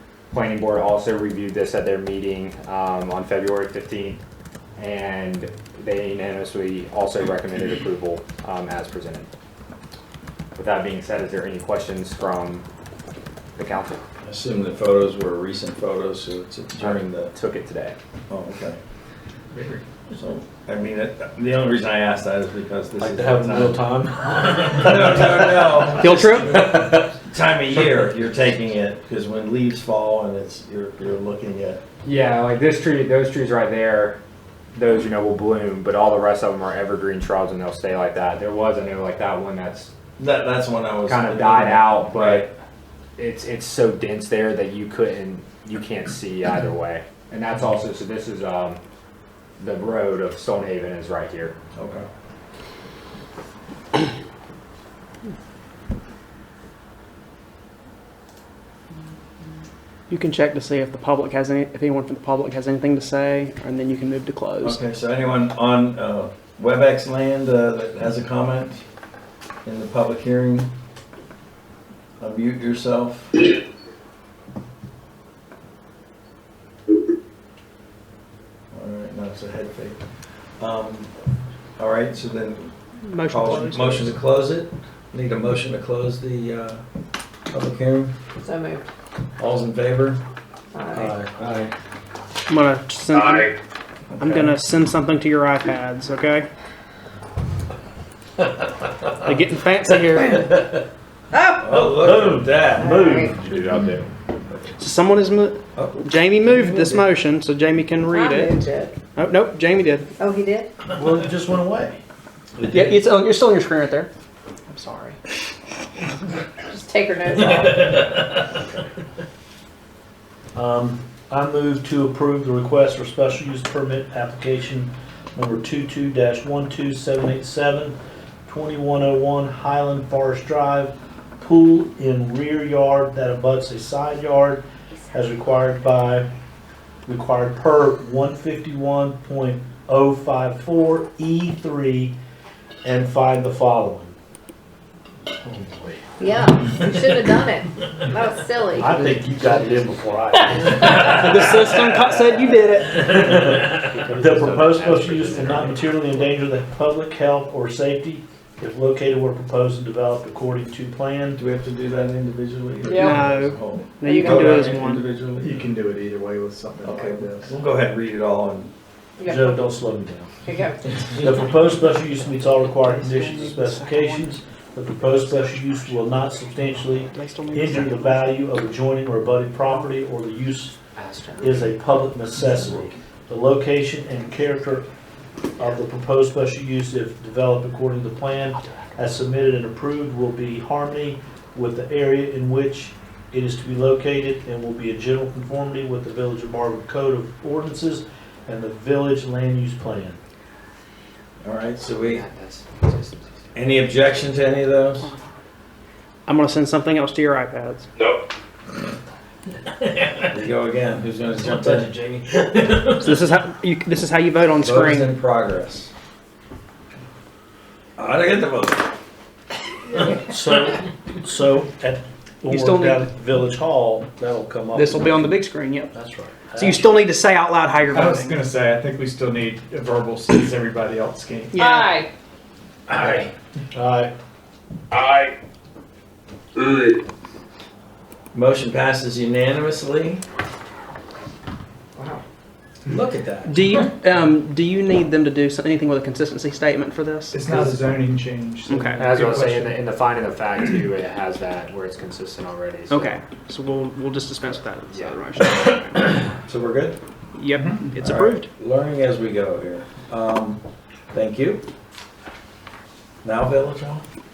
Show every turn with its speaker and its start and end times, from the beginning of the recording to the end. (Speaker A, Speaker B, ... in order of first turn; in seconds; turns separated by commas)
Speaker A: 0.3-4.2, Speaker A: 4.8-9.3, Speaker A: 10.6-12.7, Speaker A: 13.6-14.0, Speaker B: 14.2-17.3, Speaker A: 16.8-18.0, Speaker B: 18.3-18.8, Speaker B: 20.1-23.8, Speaker C: 23.0-26.8, Speaker B: 24.5-31.8, Speaker D: 26.0-26.5, Speaker A: 32.0-34.2, Speaker A: 34.7-39.9, Speaker B: 40.2-42.5, Speaker A: 41.1-42.5, Speaker A: 43.2-48.8, Speaker A: 49.6-51.5, Speaker B: 51.8-52.1, Speaker D: 60.1-64.8, Speaker B: 64.6-68.8, Speaker B: 69.7-70.7, Speaker B: 72.2-73.6, Speaker B: 78.7-80.0, Speaker B: 80.6-81.1, Speaker B: 81.8-82.7, Speaker D: 83.1-84.1, Speaker B: 83.3-86.8, Speaker B: 87.5-88.1, Speaker E: 88.4-88.8, Speaker B: 89.4-90.2, Speaker E: 90.7-91.1, Speaker B: 90.9-91.5, Speaker D: 92.5-93.6, Speaker D: 94.2-96.5, Speaker D: 99.2-100.6, Speaker B: 100.5-100.8, Speaker B: 101.5-102.7, Speaker C: 101.6-103.3, Speaker E: 102.8-103.5, Speaker A: 103.2-104.1, Speaker D: 104.8-108.6, Speaker B: 105.8-107.0, Speaker E: 108.1-109.0, Speaker D: 109.2-110.1, Speaker E: 110.2-110.7, Speaker C: 110.9-112.0, Speaker B: 112.6-112.9, Speaker D: 112.7-114.1, Speaker D: 114.7-115.2, Speaker E: 116.7-118.1, Speaker C: 120.5-136.3, Speaker C: 137.1-142.2, Speaker C: 142.8-144.2, Speaker C: 145.4-146.0, Speaker E: 146.2-148.9, Speaker C: 148.8-151.2, Speaker D: 150.9-153.2, Speaker A: 152.9-156.3, Speaker C: 153.1-161.4, Speaker B: 161.3-165.7, Speaker E: 162.8-163.2, Speaker D: 163.0-165.1, Speaker E: 164.0-164.7, Speaker F: 165.4-167.6, Speaker B: 166.8-168.7, Speaker E: 169.2-169.7, Speaker C: 169.2-170.4, Speaker E: 170.4-171.0, Speaker C: 171.1-180.8, Speaker D: 172.7-174.4, Speaker D: 176.9-178.5, Speaker A: 180.9-181.7, Speaker C: 181.4-184.9, Speaker C: 185.6-200.2, Speaker B: 201.4-202.2, Speaker A: 202.0-203.5, Speaker B: 203.5-205.1, Speaker D: 206.3-207.9, Speaker B: 210.3-212.0, Speaker D: 213.0-215.2, Speaker B: 214.6-215.9, Speaker B: 218.0-218.9, Speaker C: 220.1-226.9, Speaker D: 222.5-223.1, Speaker D: 224.7-225.9, Speaker D: 226.6-228.4, Speaker F: 227.9-231.6, Speaker D: 231.5-232.0, Speaker E: 231.6-232.1, Speaker B: 232.9-233.3, Speaker C: 233.7-234.1, Speaker B: 238.3-240.2, Speaker B: 242.9-243.6, Speaker D: 243.5-247.9, Speaker F: 247.3-249.8, Speaker D: 248.7-249.1, Speaker A: 249.0-253.2, Speaker D: 252.9-256.3, Speaker A: 254.9-255.2, Speaker B: 256.5-257.0, Speaker D: 257.4-258.5, Speaker F: 257.5-258.0, Speaker B: 258.0-261.7, Speaker B: 263.2-264.0